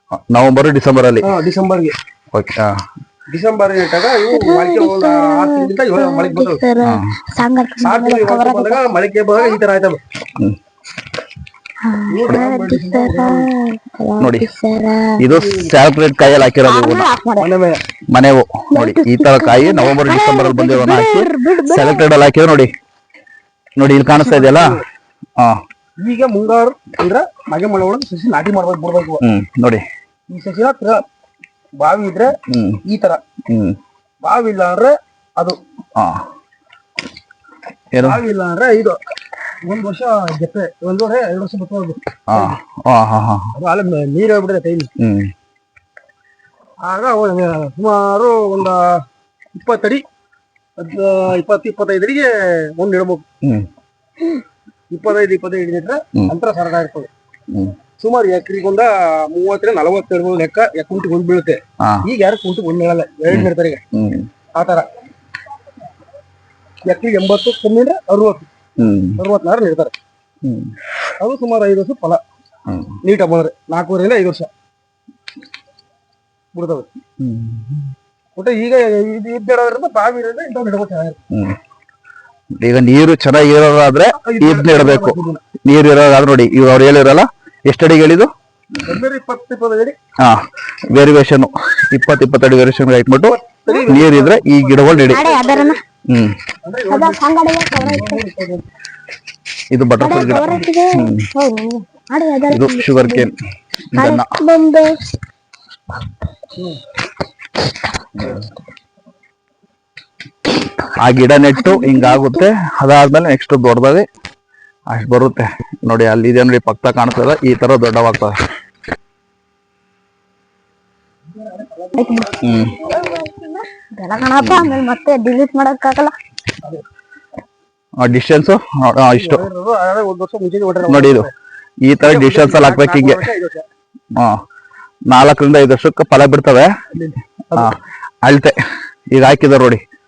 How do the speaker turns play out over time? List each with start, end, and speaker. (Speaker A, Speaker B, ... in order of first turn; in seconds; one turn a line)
Speaker A: 0.1-1.3
Speaker B: 1.2-1.9
Speaker A: 2.3-2.8
Speaker B: 3.3-6.6
Speaker C: 4.3-9.6
Speaker A: 6.8-7.1
Speaker B: 7.8-10.0
Speaker C: 11.8-15.3
Speaker B: 12.1-13.5
Speaker A: 14.2-14.5
Speaker A: 15.2-17.1
Speaker B: 15.3-15.7
Speaker C: 16.4-17.5
Speaker B: 17.4-17.8
Speaker A: 18.1-22.7
Speaker C: 18.7-22.1
Speaker A: 23.8-24.8
Speaker B: 24.1-24.8
Speaker B: 26.0-29.2
Speaker A: 29.2-29.8
Speaker B: 30.3-31.0
Speaker B: 31.8-33.2
Speaker A: 32.4-32.8
Speaker A: 33.5-33.8
Speaker B: 34.2-35.6
Speaker A: 36.0-36.2
Speaker A: 37.9-38.2
Speaker B: 38.0-39.0
Speaker B: 39.6-42.6
Speaker A: 42.3-43.5
Speaker B: 43.5-44.9
Speaker A: 45.0-45.3
Speaker B: 46.8-50.0
Speaker B: 50.8-53.2
Speaker A: 53.4-53.7
Speaker B: 54.9-57.1
Speaker B: 58.0-63.8
Speaker A: 61.8-62.1
Speaker A: 63.3-64.3
Speaker B: 64.5-64.9
Speaker B: 66.8-68.5
Speaker A: 68.8-69.2
Speaker B: 69.2-69.9
Speaker A: 70.4-70.8
Speaker B: 71.2-72.2
Speaker A: 72.7-73.0
Speaker B: 73.0-74.5
Speaker B: 76.5-76.9
Speaker A: 77.2-77.9
Speaker B: 78.3-81.2
Speaker A: 81.3-81.6
Speaker A: 82.6-88.3
Speaker B: 84.2-85.4
Speaker B: 88.8-90.0
Speaker A: 90.2-95.3
Speaker B: 93.2-95.8
Speaker C: 95.0-95.8
Speaker A: 96.1-96.3
Speaker B: 96.6-97.2
Speaker C: 96.9-98.2
Speaker A: 97.8-98.0
Speaker B: 97.8-98.6
Speaker A: 99.7-101.3
Speaker C: 100.0-103.3
Speaker B: 100.1-100.7
Speaker A: 102.5-103.3
Speaker A: 103.9-104.3
Speaker C: 104.0-105.0
Speaker A: 108.2-108.5
Speaker A: 110.9-114.1
Speaker C: 111.5-112.5
Speaker A: 114.9-118.3
Speaker B: 121.4-122.9
Speaker C: 121.9-126.1
Speaker A: 122.4-122.8
Speaker A: 124.4-124.8
Speaker A: 128.0-129.4
Speaker B: 129.1-131.3
Speaker A: 130.8-131.3
Speaker A: 131.8-133.2
Speaker B: 132.0-133.7
Speaker A: 135.1-136.7
Speaker B: 136.9-137.7
Speaker A: 137.5-138.6
Speaker A: 139.1-139.8